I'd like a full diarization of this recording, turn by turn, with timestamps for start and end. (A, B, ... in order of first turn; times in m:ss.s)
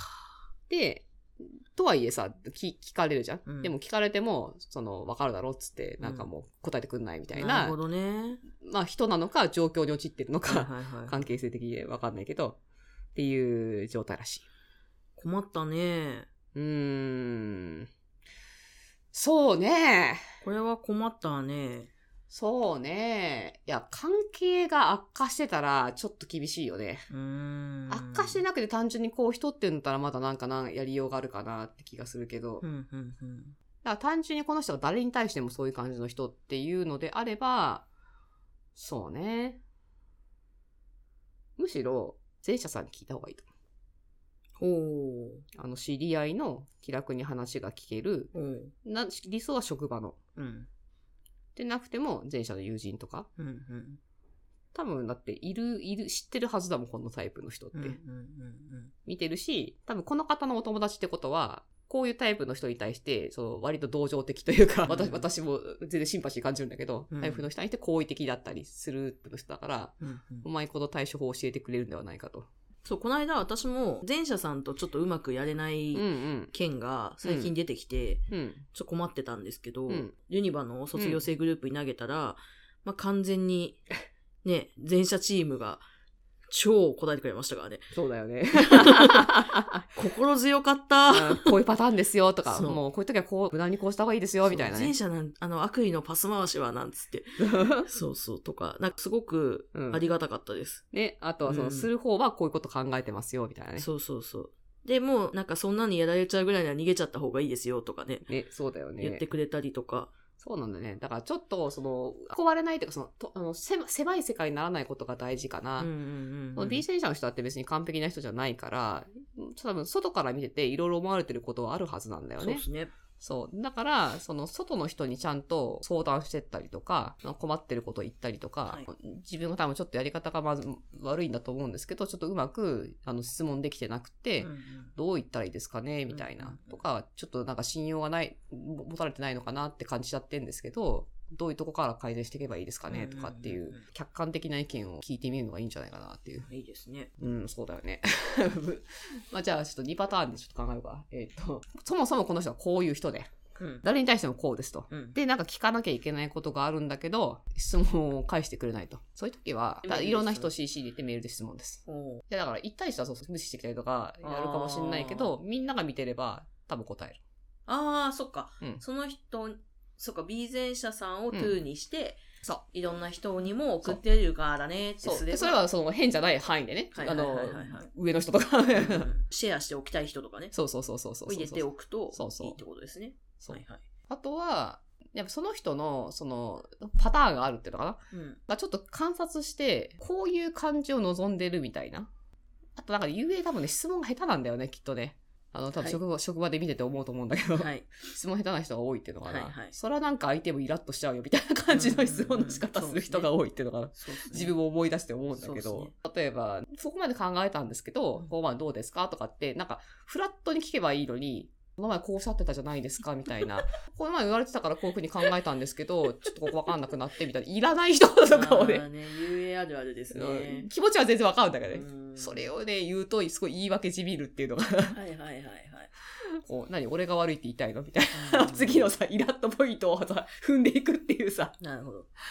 0:00.7-0:07.8 A
0:03.5-0:03.7 B
0:06.0-0:06.3 B
0:07.4-0:08.4 B
0:08.6-0:12.6 A
0:10.5-0:11.2 B
0:13.2-0:14.4 A
0:15.2-0:16.3 B
0:16.5-0:17.9 A
0:19.1-0:20.2 A
0:20.4-0:21.9 B
0:22.3-0:27.1 A
0:27.1-0:28.4 B
0:27.9-0:32.6 A
0:32.6-0:33.5 B
0:33.8-0:37.9 A
0:38.8-0:39.6 A
0:41.6-0:43.5 A
0:44.6-0:45.4 B
0:45.5-0:48.3 A
0:48.3-0:48.7 B
0:48.8-0:50.2 A
0:50.4-0:50.7 B
0:51.6-0:53.3 A
0:53.4-0:54.0 B
0:54.7-0:58.0 A
0:57.7-0:58.9 B
0:59.1-1:12.5 A
1:04.9-1:05.2 B
1:07.1-1:07.5 B
1:10.0-1:10.5 B
1:12.8-1:18.2 B
1:15.9-1:16.5 A
1:17.2-1:17.5 A
1:18.3-1:18.6 A
1:18.7-1:23.8 B
1:21.0-1:21.2 A
1:24.4-1:25.8 B
1:26.5-1:27.9 B
1:27.9-1:29.8 A
1:28.6-1:29.4 B
1:29.9-1:31.5 B
1:31.1-1:34.9 A
1:32.5-1:32.8 B
1:34.5-1:40.8 B
1:37.4-1:37.9 A
1:39.7-1:40.0 A
1:40.9-1:43.9 A
1:41.4-1:41.9 B
1:43.8-1:48.3 B
1:48.3-1:49.2 A
1:49.0-1:50.1 B
1:50.4-1:55.9 A
1:55.8-1:56.8 B
1:56.6-2:02.6 A
2:02.4-2:02.9 B
2:03.2-2:26.5 A
2:14.4-2:14.9 B
2:16.1-2:16.8 B
2:22.9-2:23.8 B
2:26.5-2:27.1 B
2:27.2-2:33.3 A
2:33.6-2:33.8 B
2:33.8-2:47.2 A
2:34.9-2:35.2 B
2:39.8-2:40.5 B
2:41.9-2:42.2 B
2:44.2-2:45.3 B
2:47.7-2:55.6 B
2:51.3-2:51.6 A
2:55.0-2:59.1 A
2:56.9-2:57.9 B
2:58.7-3:00.5 B
3:00.5-3:02.6 A
3:01.3-3:03.8 B
3:03.4-3:12.1 A
3:08.1-3:08.4 B
3:12.8-3:38.9 A
3:17.6-3:17.9 B
3:19.2-3:19.8 B
3:21.7-3:23.3 B
3:24.0-3:24.5 B
3:25.3-3:25.9 B
3:38.3-3:40.7 B
3:40.1-3:45.0 A
3:41.7-3:42.5 B
3:44.9-3:45.9 B
3:46.4-3:51.6 A
3:48.1-3:48.9 B
3:51.6-3:52.1 B